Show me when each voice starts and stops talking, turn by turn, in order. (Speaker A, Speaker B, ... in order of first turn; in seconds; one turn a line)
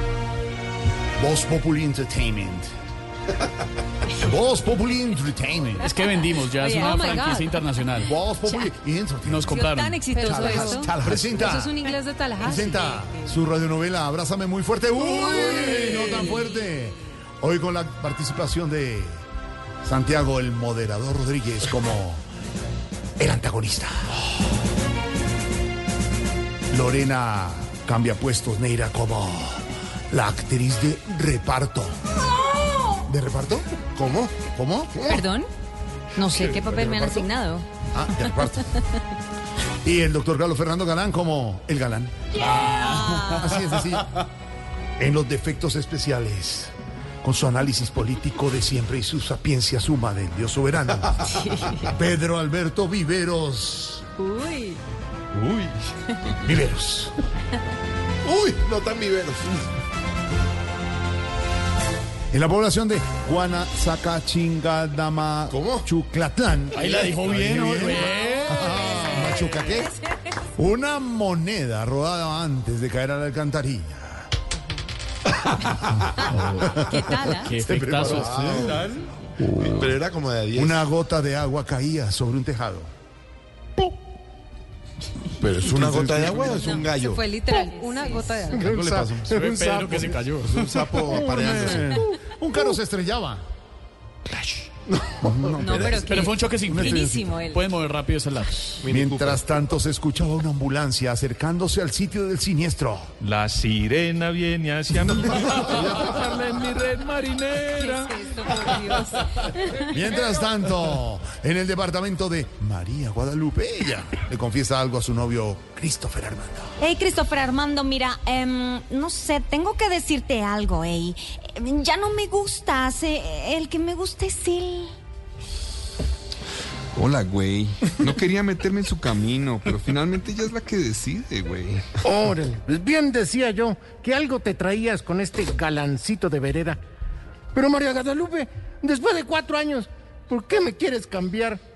Speaker A: 1.2-2.7
Speaker A: 4.1-5.9
Speaker B: 5.8-8.1
Speaker C: 6.5-7.6
Speaker A: 8.0-11.8
Speaker B: 9.2-10.2
Speaker C: 9.4-13.3
Speaker A: 12.4-19.2
Speaker C: 15.4-16.2
Speaker A: 19.8-22.2
Speaker A: 23.2-24.1
Speaker A: 26.7-32.0
Speaker A: 33.0-35.1
Speaker D: 34.0-34.3
Speaker D: 35.0-35.2
Speaker C: 35.1-35.5
Speaker C: 36.2-37.6
Speaker A: 36.4-37.3
Speaker A: 37.9-38.7
Speaker A: 39.8-44.2
Speaker E: 42.4-43.5
Speaker A: 45.0-54.0
Speaker C: 54.2-54.8
Speaker A: 56.4-57.1
Speaker D: 58.2-59.6
Speaker A: 62.3-70.0
Speaker D: 65.5-65.8
Speaker B: 66.7-69.5
Speaker A: 70.5-74.3
Speaker B: 76.2-78.9
Speaker A: 76.8-77.1
Speaker E: 76.9-77.5
Speaker D: 77.6-80.8
Speaker A: 79.4-79.8
Speaker A: 80.5-82.9
Speaker D: 85.4-87.3
Speaker A: 85.6-86.7
Speaker C: 86.5-88.7
Speaker F: 87.4-87.7
Speaker E: 87.7-88.3
Speaker F: 88.5-90.0
Speaker A: 88.5-89.4
Speaker B: 89.2-91.2
Speaker D: 90.4-92.0
Speaker A: 91.1-93.4
Speaker F: 91.2-92.0
Speaker D: 94.3-96.3
Speaker A: 95.2-95.9
Speaker C: 95.6-97.7
Speaker B: 96.0-98.9
Speaker A: 96.6-97.4
Speaker D: 98.8-99.4
Speaker A: 98.8-103.1
Speaker G: 103.2-109.2
Speaker C: 107.6-109.5
Speaker A: 109.8-116.7
Speaker E: 116.8-124.9
Speaker H: 126.9-131.8
Speaker F: 132.0-136.8
Speaker F: 137.5-141.6